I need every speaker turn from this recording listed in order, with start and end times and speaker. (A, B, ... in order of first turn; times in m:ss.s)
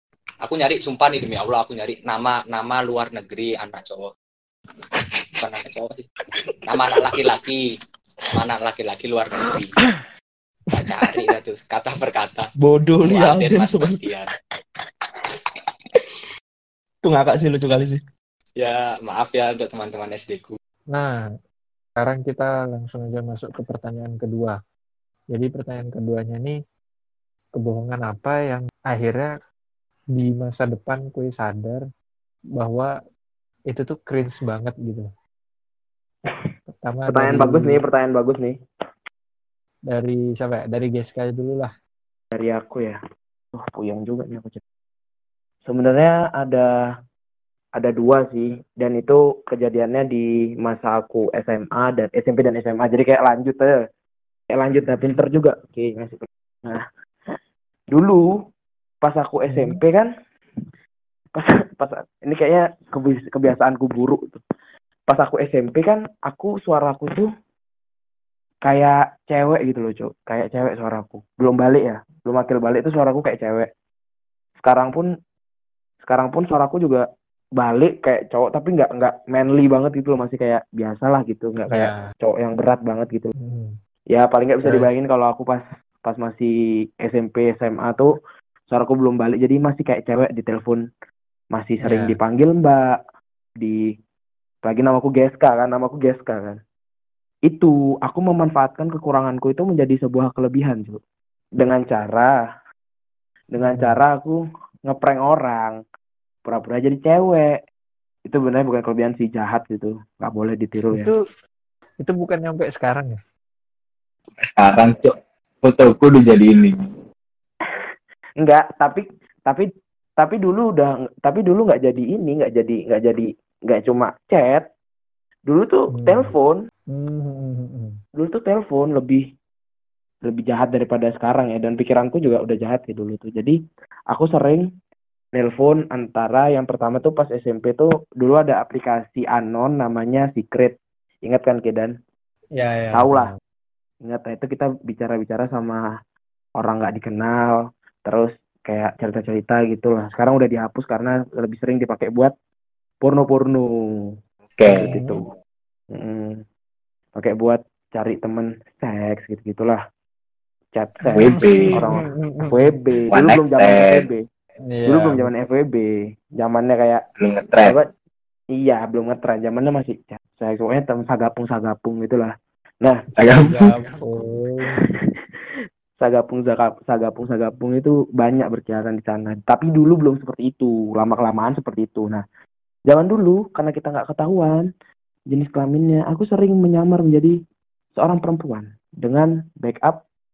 0:00.4-0:04.1 A
0:05.3-0:06.1 A
0:06.7-0:07.6 A
0:08.3-0:09.8 A
0:10.7-0:12.5 A
0:12.6-0:14.1 B
0:13.0-0:14.3 A
0:17.0-0:18.0 B
0:18.6-0:20.6 A
0:22.0-0:24.6 C
0:25.3-0:26.6 C
0:27.6-0:29.3 C
0:30.2-0:31.8 C
0:32.6-0:32.9 C
0:33.7-0:35.1 C
0:36.8-0:37.8 C
0:37.1-0:38.6 D
0:39.9-0:41.7 C
0:42.3-0:43.0 D
0:43.6-0:44.6 D
0:45.7-0:46.7 D
0:47.8-0:53.9 D
0:54.5-0:56.8 D
0:57.9-0:58.4 D
0:59.0-1:00.1 D
0:59.5-0:59.8 C
1:01.4-1:04.4 D
1:05.1-1:07.3 D
1:08.6-1:13.7 D
1:14.6-1:15.1 D
1:16.0-1:17.0 D
1:17.6-1:23.3 D
1:21.7-1:22.1 C
1:23.4-1:23.8 C
1:24.1-1:28.1 D
1:28.7-1:30.8 D
1:31.5-1:33.0 D
1:31.8-1:32.2 C
1:34.6-1:36.6 D
1:37.5-1:41.0 D
1:41.6-1:42.4 D
1:43.5-1:45.8 D
1:43.6-1:44.0 C
1:46.4-1:47.6 D
1:48.3-1:51.1 D
1:52.0-1:53.2 C
1:54.4-1:56.9 E
1:57.6-1:59.7 D
2:00.2-2:04.7 D
2:05.5-2:06.6 D
2:05.9-2:06.3 C
2:06.9-2:08.0 C
2:08.2-2:09.3 D
2:10.2-2:13.6 D
2:14.1-2:14.7 D
2:15.3-2:22.0 D
2:22.6-2:23.3 C
2:22.9-2:23.3 D
2:24.0-2:25.8 D
2:26.6-2:32.3 D
2:33.0-2:34.1 D
2:34.6-2:34.9 E
2:34.6-2:35.3 D
2:34.8-2:35.2 C
2:35.9-2:36.4 D
2:37.2-2:39.8 D
2:40.8-2:44.3 D
2:41.0-2:41.8 E
2:41.1-2:42.7 C
2:43.1-2:44.1 E
2:44.7-2:45.3 C
2:44.9-2:47.0 D
2:47.2-2:47.8 E
2:48.6-2:53.0 D
2:53.2-2:53.7 E
2:53.3-2:54.8 C
2:54.6-2:55.1 D
2:56.0-3:02.2 D
3:02.9-3:04.7 D
3:05.3-3:07.4 D
3:08.0-3:10.0 D